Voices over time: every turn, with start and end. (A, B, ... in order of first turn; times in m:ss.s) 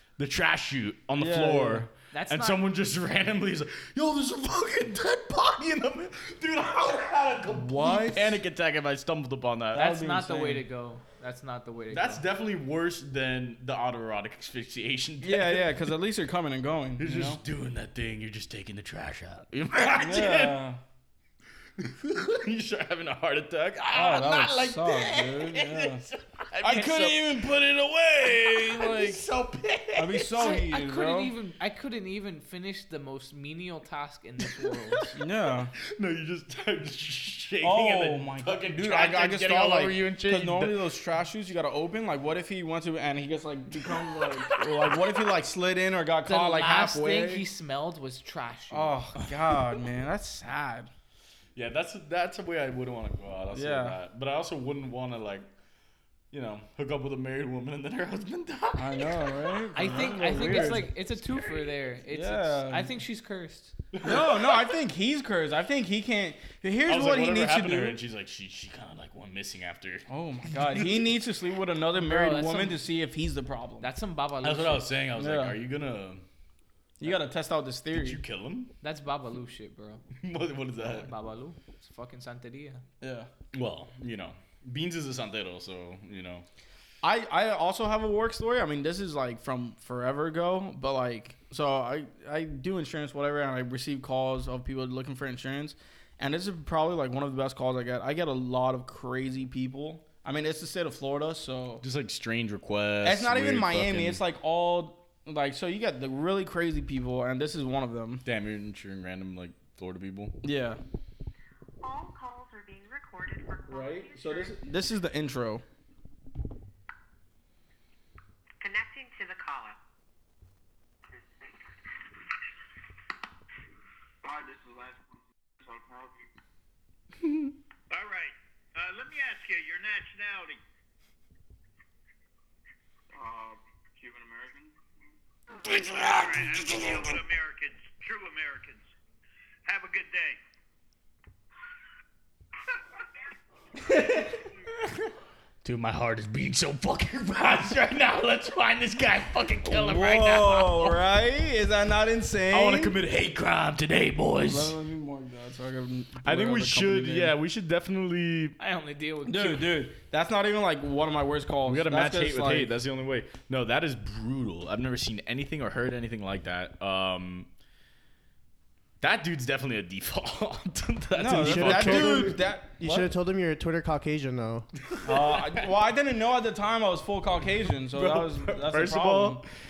0:00.2-0:10.0 A
0:01.2-0:01.9 B
0:02.1-0:02.6 C
0:07.5-0:08.4 B
0:09.7-0:10.6 B
0:09.7-0:12.2 C
0:11.9-0:15.8 A
0:15.2-0:17.4 B
0:17.0-0:20.6 A
0:20.0-0:20.8 B
0:21.8-0:30.5 A
0:23.9-0:26.0 B
0:26.6-0:29.2 B
0:30.0-0:31.3 B
0:30.4-0:35.1 C
0:34.6-0:34.9 A
0:35.2-0:35.7 B
0:35.8-0:40.8 A
0:37.6-0:47.4 B
0:43.8-0:45.0 A
0:46.2-0:48.9 C
0:48.7-0:50.9 B
0:51.6-0:55.5 A
0:53.5-0:54.0 B
0:56.3-1:01.7 A
0:58.8-1:00.9 B
0:59.7-1:03.7 C
1:02.1-1:02.9 B
1:03.9-1:04.6 A
1:04.0-1:08.0 B
1:06.9-1:10.0 A
1:10.1-1:13.9 B
1:12.0-1:12.8 C
1:13.8-1:14.9 C
1:14.4-1:16.2 A
1:15.2-1:15.6 B
1:17.0-1:18.2 B
1:17.9-1:18.7 A
1:18.8-1:20.0 C
1:20.2-1:21.1 A
1:20.8-1:22.8 C
1:23.0-1:23.3 B
1:23.5-1:26.4 A
1:27.0-1:41.8 B
1:41.8-1:44.2 A
1:43.0-1:48.2 B
1:48.2-1:50.4 A
1:50.4-1:50.8 B
1:51.8-1:55.0 D
1:53.7-1:55.6 B
1:58.6-1:59.8 D
2:05.6-2:06.1 E
2:07.9-2:10.6 E
2:13.1-2:14.7 E
2:15.7-2:16.5 A
2:15.7-2:18.9 E
2:19.6-2:20.4 E
2:23.9-2:24.4 A
2:25.6-2:31.0 A
2:29.6-2:33.0 B
2:32.5-2:34.8 A
2:34.4-2:37.3 B
2:36.2-2:38.6 A
2:38.6-2:39.8 C
2:39.2-2:42.8 B
2:41.6-2:47.5 A
2:49.0-2:52.4 A
2:51.1-2:53.1 B
2:51.3-2:54.7 F
2:54.9-2:55.5 A
2:55.0-2:59.4 B
2:57.9-2:59.5 A